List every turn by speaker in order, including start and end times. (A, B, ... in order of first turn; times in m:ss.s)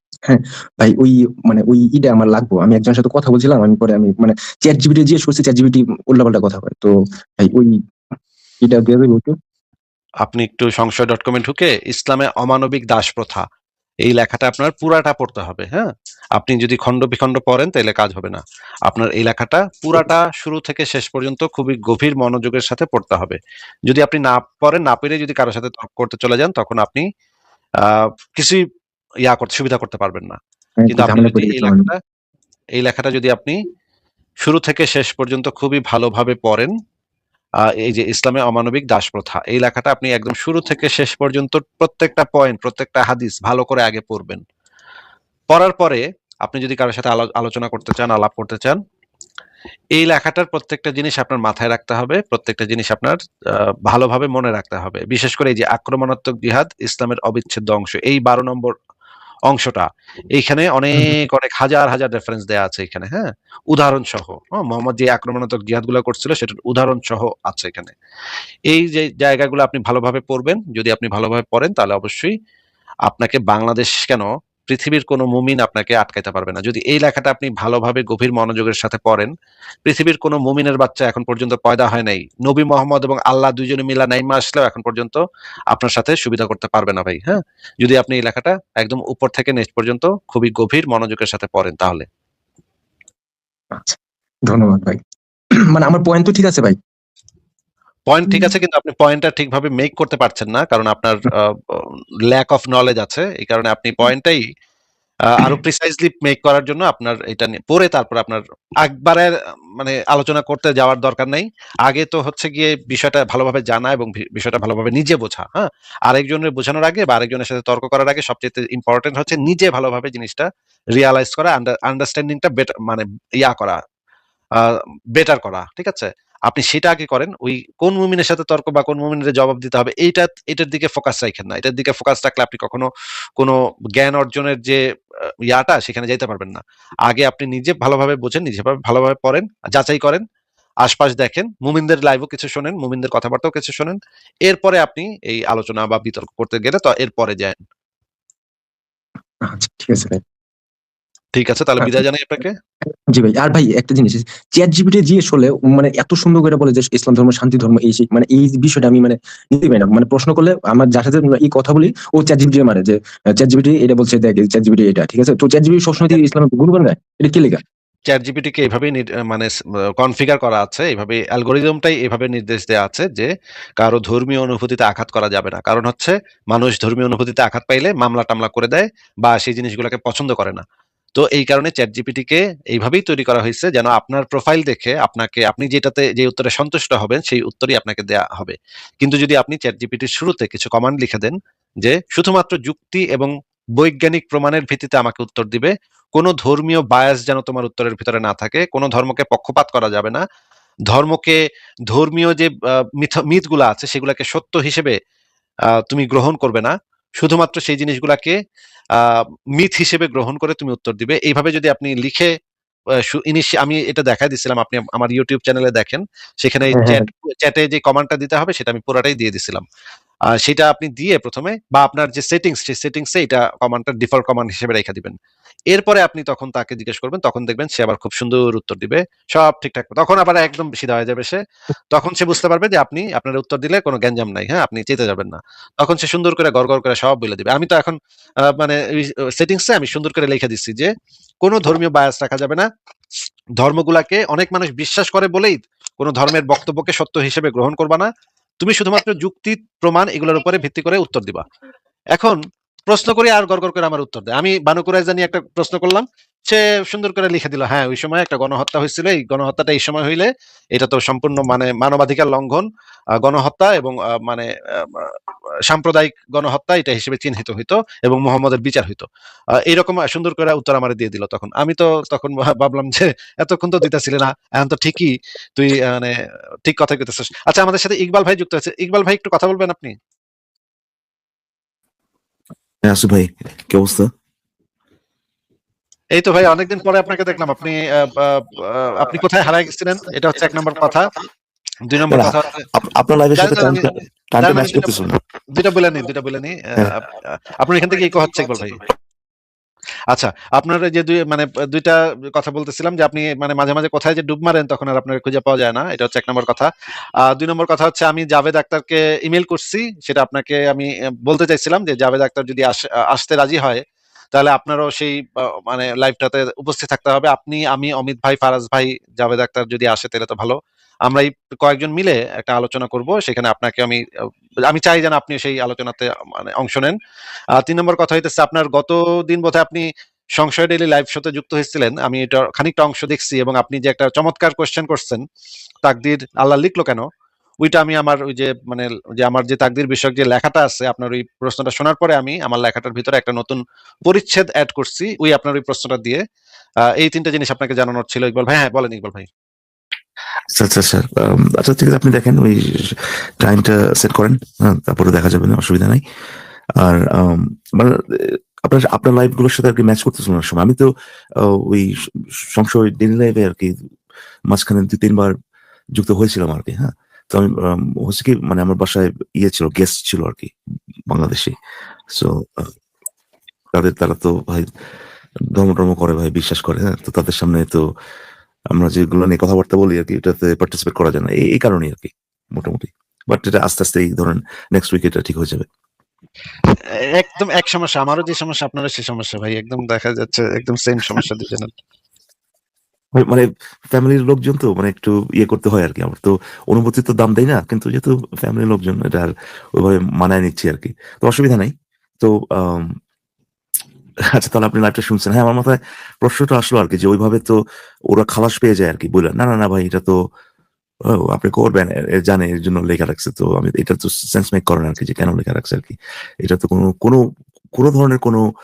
0:00.3-0:07.7 A
0:08.6-0:09.3 A
0:10.2-0:13.4 B
0:14.0-0:27.0 B
0:27.8-0:28.6 B
0:29.2-0:30.4 B
0:30.8-0:31.9 A
0:30.9-0:32.0 B
0:32.8-0:33.6 B
0:34.4-0:36.7 B
0:37.6-0:44.4 B
0:45.5-0:48.8 B
0:49.9-0:58.7 B
0:59.5-1:07.9 B
1:08.7-1:12.3 B
1:13.1-1:19.3 B
1:19.8-1:32.0 B
1:33.7-1:35.0 A
1:35.7-1:36.8 A
1:38.1-1:44.5 B
1:45.3-2:03.8 B
2:04.6-2:14.8 B
2:15.5-2:20.2 B
2:20.8-2:27.6 B
2:29.4-2:30.2 A
2:31.3-2:32.6 B
2:33.1-2:47.6 A
2:48.1-3:00.6 B
3:01.2-3:20.2 B
3:20.9-3:25.0 B
3:25.9-3:28.4 B
3:29.0-3:32.3 B
3:33.1-3:39.6 B
3:36.7-3:37.0 A
3:40.3-3:45.2 B
3:45.7-3:51.4 B
3:51.9-4:00.9 B
4:01.4-4:02.7 B
4:03.6-4:08.1 B
4:08.6-4:11.4 B
4:12.1-4:22.6 B
4:23.2-4:25.2 B
4:25.7-4:29.0 B
4:29.6-4:36.1 B
4:36.6-4:40.0 B
4:42.8-4:44.1 C
4:46.2-4:51.1 B
4:51.8-4:52.6 B
4:52.1-4:55.2 C
4:53.4-4:58.8 B
5:00.1-5:13.8 B
5:14.3-5:24.0 B
5:24.6-5:27.0 B
5:27.5-5:35.2 B
5:35.8-5:37.1 B
5:37.6-5:46.2 B
5:46.8-5:49.3 B
5:50.5-5:56.0 C
5:56.8-6:00.9 C
6:01.4-6:03.7 C
6:04.5-6:05.3 C
6:06.0-6:10.5 C
6:11.1-6:11.5 C
6:12.1-6:12.7 C
6:13.7-6:14.7 C
6:15.5-6:17.8 C
6:18.7-6:25.6 C
6:27.2-6:31.7 B
6:33.2-6:42.9 C
6:44.3-6:47.6 C
6:48.1-6:50.2 C
6:51.1-6:57.2 C
6:57.8-6:58.4 C